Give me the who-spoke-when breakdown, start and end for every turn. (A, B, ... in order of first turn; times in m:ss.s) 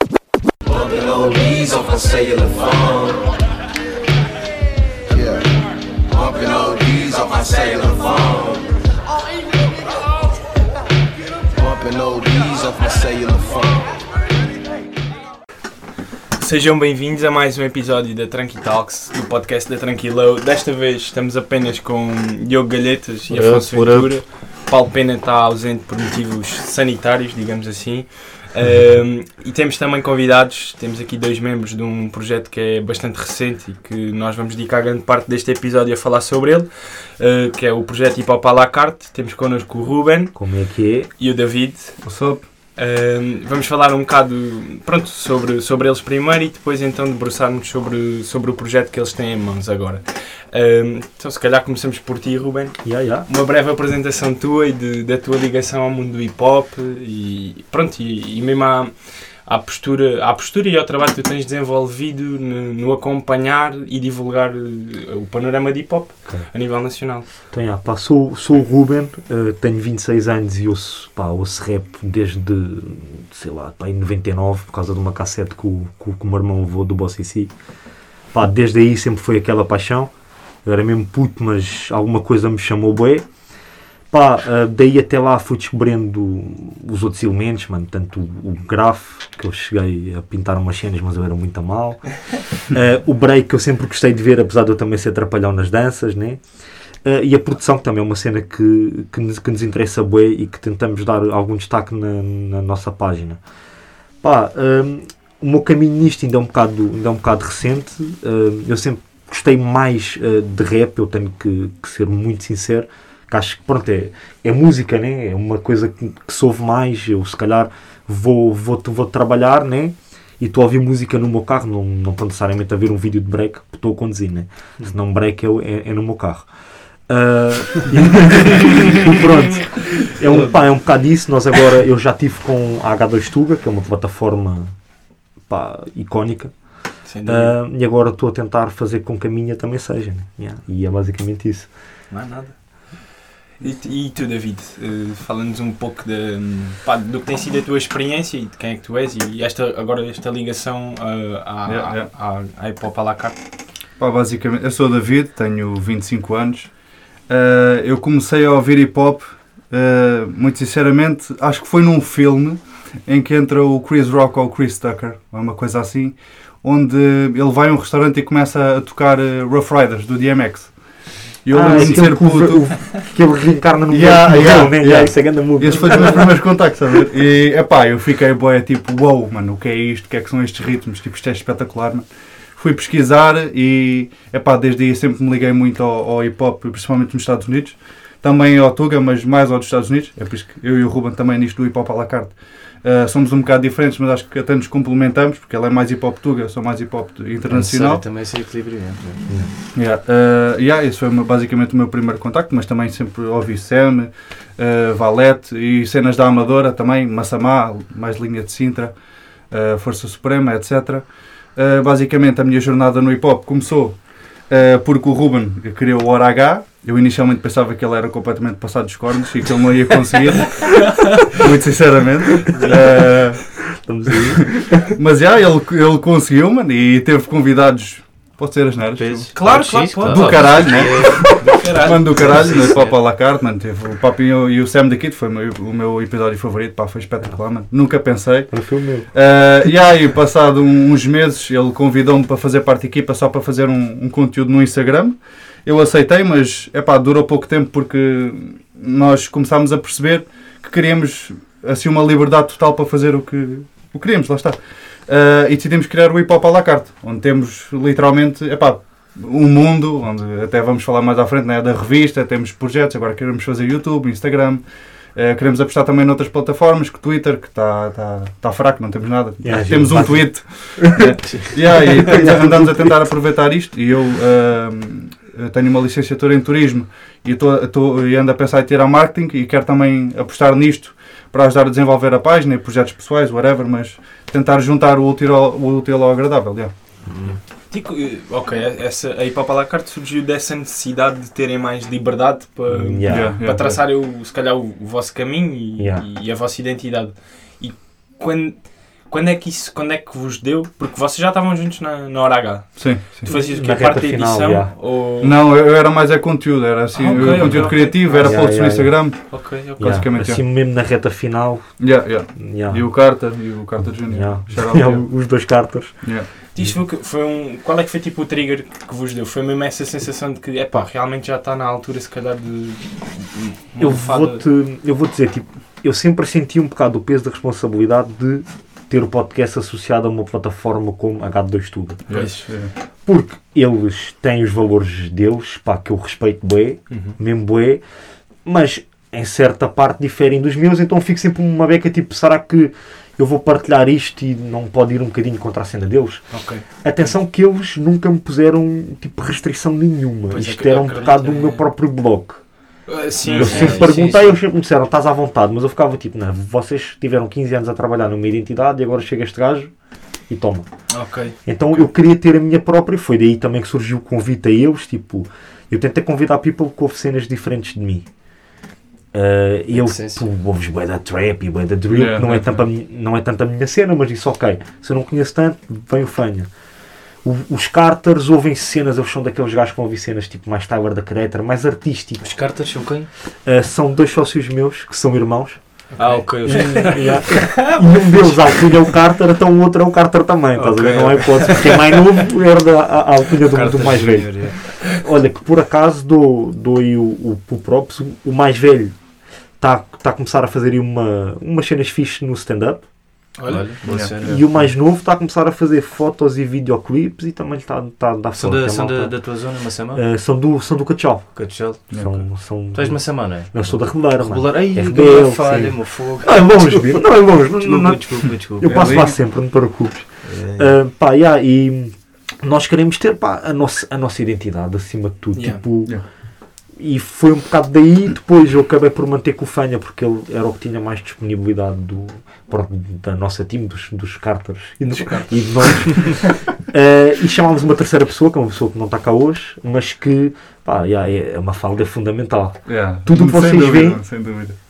0:00.7-0:03.2 A
0:05.1-0:05.5 A
0:06.1-0:08.7 A
0:11.5-0:14.0 A
0:16.4-0:40.4 B
0:23.3-0:24.2 C
0:40.4-0:41.1 D
0:41.2-0:42.0 B
0:42.0-0:42.4 E
0:42.8-0:58.9 B
0:52.8-0:53.3 D
0:59.5-1:07.3 B
1:07.5-1:17.5 D
1:18.3-1:20.1 D
1:20.6-1:23.2 D
1:24.1-1:36.4 D
1:37.0-1:43.4 D
1:44.2-2:06.5 D
2:07.1-2:14.7 D
2:15.5-2:16.5 D
2:17.1-2:17.6 B
2:17.3-2:21.7 D
2:22.1-2:22.6 B
2:23.6-2:33.4 B
2:31.7-2:32.1 E
2:34.0-2:36.7 E
2:37.3-2:50.7 E
2:51.4-2:52.8 E
2:51.5-2:56.4 D
2:53.9-3:18.0 E
3:17.5-3:19.3 C
3:19.7-3:29.0 E
3:29.5-3:43.6 E
3:42.5-3:45.0 D
3:44.2-3:49.3 E
3:49.0-3:51.6 C
3:49.3-3:53.0 B
3:50.0-3:58.6 E
3:52.1-3:52.8 C
3:58.5-3:59.1 D
3:59.1-4:24.6 E
4:25.2-4:31.0 E
4:29.4-4:31.1 D
4:31.0-4:32.2 C
4:31.5-4:46.7 E
4:31.8-4:33.1 D
4:47.1-4:47.4 C
4:47.7-5:05.4 B
4:52.7-4:53.4 D
4:53.1-4:53.8 E
4:55.8-4:56.0 D
5:02.8-5:03.3 E
5:03.3-5:04.7 D
5:05.2-5:09.2 E
5:06.9-5:08.5 B
5:07.4-5:09.0 D
5:09.3-5:10.0 B
5:09.8-5:11.7 D
5:09.8-5:10.4 E
5:11.8-5:15.0 E
5:12.4-5:12.8 D
5:14.0-5:16.0 D
5:16.5-5:24.4 B
5:23.8-5:32.0 D
5:32.1-5:32.7 E
5:32.1-5:32.5 B
5:33.1-5:37.8 D
5:38.4-5:46.2 D
5:46.3-5:46.6 B
5:46.8-5:52.4 D
5:50.3-5:51.6 B
5:52.9-5:54.4 B
5:53.2-5:54.0 C
5:53.3-5:59.7 D
6:00.3-6:00.7 D
6:00.9-6:01.4 B
6:01.5-6:08.1 D
6:09.1-6:16.5 D
6:09.7-6:10.2 C
6:11.9-6:12.6 E
6:17.2-6:22.4 D
6:22.2-6:23.1 C
6:23.4-6:25.6 D
6:26.0-6:26.9 B
6:26.0-6:28.8 C
6:26.4-6:39.0 D
6:30.6-6:32.0 C
6:33.4-6:34.6 C
6:39.6-6:42.8 D
6:43.4-6:43.7 B
6:43.5-6:44.7 C
6:43.8-6:44.4 E
6:44.2-6:49.2 D
6:48.4-6:50.0 C
6:50.0-7:06.0 D
6:51.4-6:51.8 C
6:51.9-6:52.2 E
6:52.8-6:59.0 C
6:58.6-6:59.2 E
7:00.2-7:00.8 C
7:05.4-7:05.6 B
7:06.8-7:24.0 D
7:14.8-7:16.0 B
7:22.7-7:24.6 E